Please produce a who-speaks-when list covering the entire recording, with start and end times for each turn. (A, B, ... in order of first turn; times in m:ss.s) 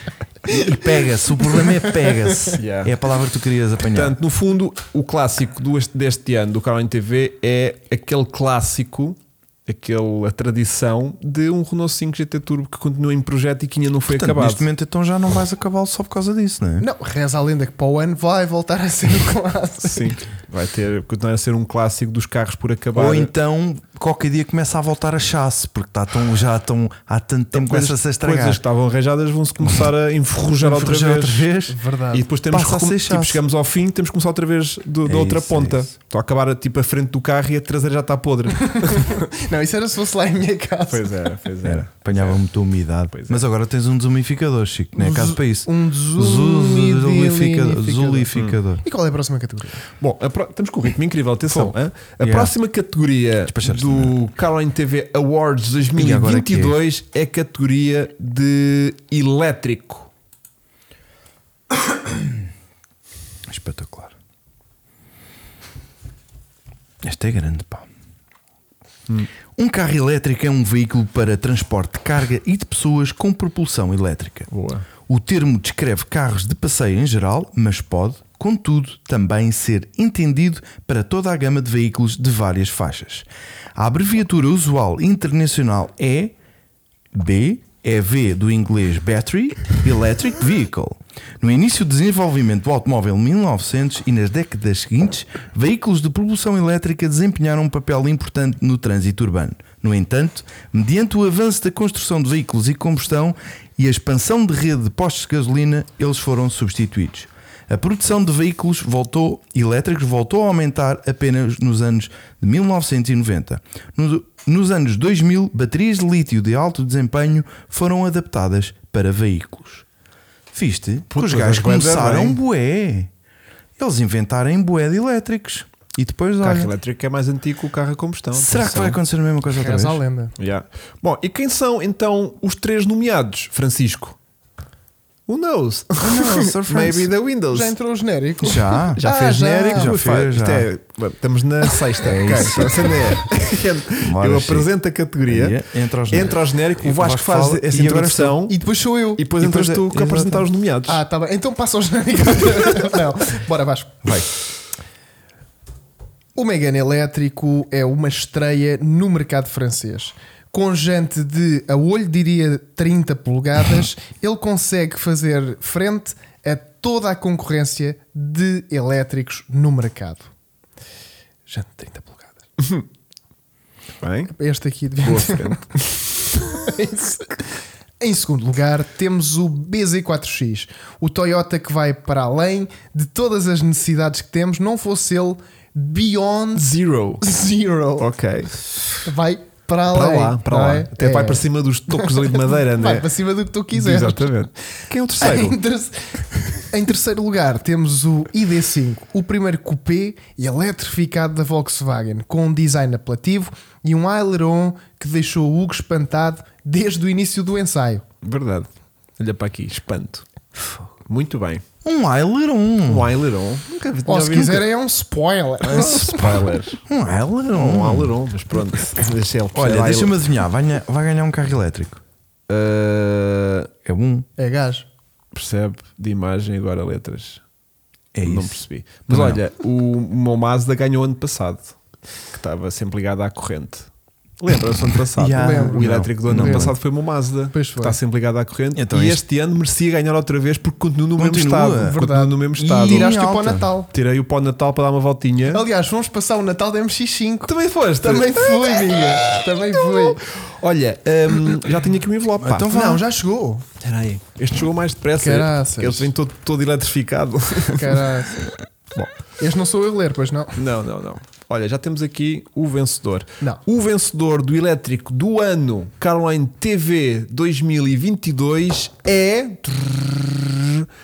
0:00.5-0:02.6 A
0:00.5-0:04.2 B
0:02.5-0:02.9 C
0:03.9-0:14.6 C
0:14.1-0:16.8 B
0:16.8-0:20.1 A
0:19.8-0:23.3 C
0:22.9-0:28.6 B
0:27.5-0:31.5 C
0:30.5-0:31.8 B
0:31.7-0:32.3 A
0:32.1-0:39.2 C
0:32.5-0:33.4 B
0:35.0-0:35.9 B
0:38.6-0:41.2 A
0:40.9-0:42.4 C
0:41.6-0:48.8 B
0:43.1-0:43.4 C
0:45.0-0:48.3 A
0:48.3-0:48.6 C
0:48.8-0:49.8 A
0:50.0-1:00.1 C
0:51.5-0:52.5 B
0:53.5-0:54.2 B
0:56.0-0:56.8 B
1:03.5-1:04.1 B
1:07.0-1:07.9 B
1:09.6-1:14.5 B
1:14.5-1:14.8 C
1:15.0-1:26.3 B
1:27.1-1:59.8 B
2:00.5-2:03.1 B
2:01.1-2:02.4 C
2:03.8-2:06.7 B
2:06.4-2:09.0 C
2:08.3-2:10.0 B
2:09.5-2:10.4 A
2:10.4-2:14.2 C
2:15.3-2:17.7 C
2:16.0-2:17.1 B
2:17.5-2:19.9 A
2:18.4-2:19.0 B
2:19.0-2:28.6 C
2:19.7-2:20.7 B
2:22.0-2:23.2 B
2:24.0-2:24.7 B
2:25.2-2:28.4 B
2:28.5-2:30.2 A
2:29.2-2:31.0 C
2:29.4-2:30.4 B
2:30.8-2:34.1 A
2:36.3-2:50.3 A
2:51.5-2:52.4 A
2:52.6-2:52.8 C
2:54.0-2:54.3 C
2:54.3-2:55.7 A
2:55.0-2:56.4 C
2:56.3-3:08.1 A
3:06.6-3:07.2 C
3:08.0-3:09.0 C
3:09.0-3:14.5 A
3:09.9-3:13.1 C
3:13.7-3:15.6 C
3:15.2-3:28.0 A
3:28.2-3:30.2 C
3:31.0-3:31.6 C
3:31.8-3:33.1 B
3:32.9-3:34.7 C
3:34.1-3:36.3 A
3:35.6-3:38.1 B
3:35.7-3:36.8 C
3:37.5-3:40.2 C
3:39.5-3:42.0 B
3:42.5-3:43.7 C
3:43.8-3:44.3 B
3:44.4-3:44.8 A
3:45.3-3:47.4 C
3:48.1-3:49.4 B
3:48.2-3:51.8 C
3:52.3-4:03.1 C
3:55.2-3:56.7 B
3:55.3-3:56.8 A
3:57.5-3:58.0 A
3:58.7-3:59.2 B
4:01.2-4:02.0 B
4:01.8-4:03.9 A
4:02.6-4:03.7 B
4:03.9-4:05.6 C
4:05.5-4:10.2 A
4:07.4-4:12.9 C
4:12.4-4:13.0 B
4:12.7-4:13.6 A
4:13.8-4:18.1 C
4:15.2-4:16.1 A
4:17.7-4:18.5 A
4:19.4-4:20.6 A
4:20.6-4:30.9 C